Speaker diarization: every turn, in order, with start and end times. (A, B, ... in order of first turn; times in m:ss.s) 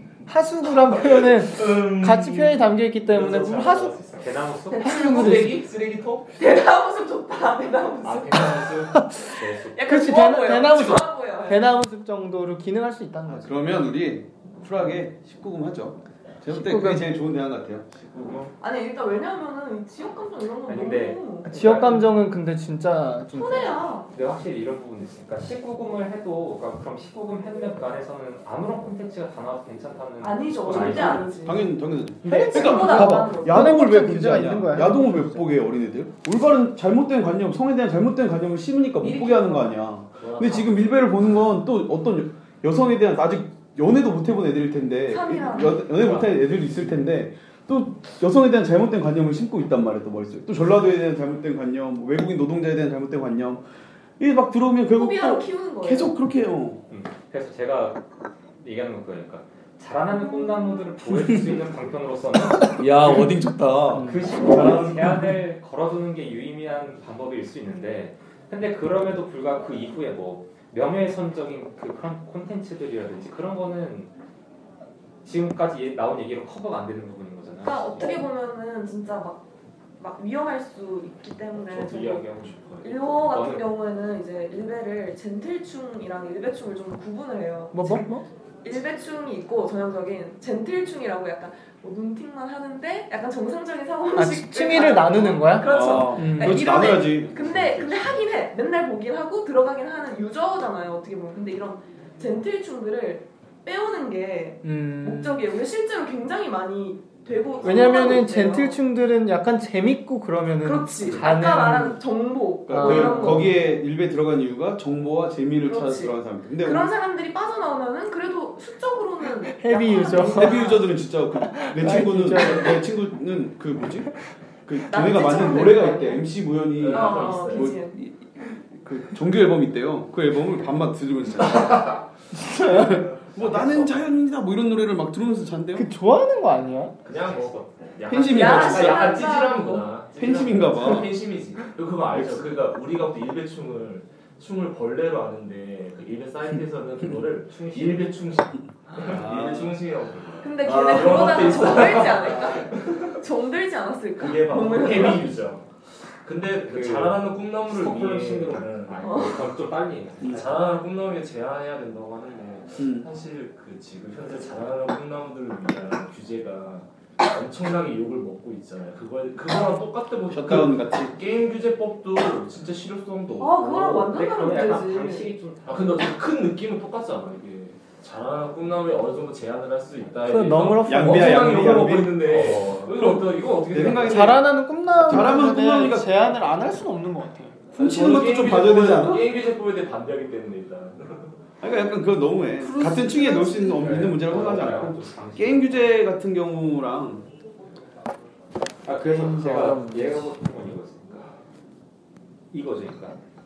0:00.3-0:04.0 A
0:00.7-0:06.4 B
0:04.2-0:05.0 C
0:04.8-0:05.7 A
0:06.4-0:08.5 D
0:08.0-0:09.0 B
0:08.8-0:13.6 A
0:09.2-0:09.9 C
0:09.8-0:11.6 D
0:13.3-0:17.9 E
0:16.4-0:17.2 A
0:18.0-0:18.5 B
0:18.6-0:21.5 D
0:20.6-0:22.2 C
0:21.5-0:23.8 A
0:23.3-0:24.1 D
0:24.1-0:31.3 C
0:30.2-0:31.7 D
0:31.4-0:53.6 E
0:32.2-0:33.7 D
0:32.3-0:35.4 A
0:39.0-0:40.4 D
0:40.1-0:41.1 B
0:45.1-0:46.2 D
0:54.2-0:56.8 E
0:54.9-0:56.1 D
0:56.9-0:58.0 C
0:58.6-1:03.0 C
1:00.1-1:00.8 D
1:01.1-1:01.7 E
1:02.6-1:05.4 E
1:03.9-1:04.3 A
1:04.0-1:14.1 C
1:15.2-1:18.2 C
1:17.6-1:19.5 D
1:20.0-1:48.8 D
1:21.6-1:23.1 B
1:23.3-1:23.7 C
1:27.7-1:28.2 A
1:34.1-1:36.6 A
1:35.6-1:38.2 E
1:44.6-1:45.5 A
1:47.6-1:52.0 A
1:50.6-1:53.6 D
1:52.7-1:53.5 A
1:52.7-1:56.9 E
1:55.6-2:00.9 D
1:59.5-2:00.7 A
2:00.3-2:07.0 E
2:01.3-2:02.8 A
2:04.8-2:06.3 D
2:06.8-2:07.8 B
2:06.9-2:08.0 D
2:07.6-2:12.0 E
2:12.3-2:13.0 A
2:12.7-2:15.9 E
2:13.4-2:14.1 C
2:15.8-2:17.0 A
2:17.0-2:33.1 B
2:17.1-2:17.8 C
2:18.0-2:18.9 E
2:18.3-2:20.1 D
2:20.1-2:21.3 E
2:22.1-2:22.6 E
2:27.5-2:28.2 C
2:29.1-2:29.7 E
2:30.4-2:35.3 D
2:34.2-2:39.7 B
2:36.6-2:40.6 C
2:39.0-2:39.3 D
2:40.3-2:54.1 B
2:42.8-2:43.1 E
2:50.2-2:51.2 E
2:53.4-2:55.3 D
2:54.1-2:56.1 C
2:55.7-3:04.4 B
3:00.2-3:01.8 A
3:00.9-3:02.3 E
3:02.2-3:03.0 C
3:03.0-3:04.5 E
3:04.0-3:08.2 A
3:05.0-3:06.2 E
3:07.7-3:11.4 B
3:07.8-3:09.3 E
3:11.6-3:17.3 E
3:12.6-3:13.9 A
3:13.7-3:15.9 C
3:18.8-3:21.3 C
3:18.9-3:20.4 A
3:22.5-3:23.2 C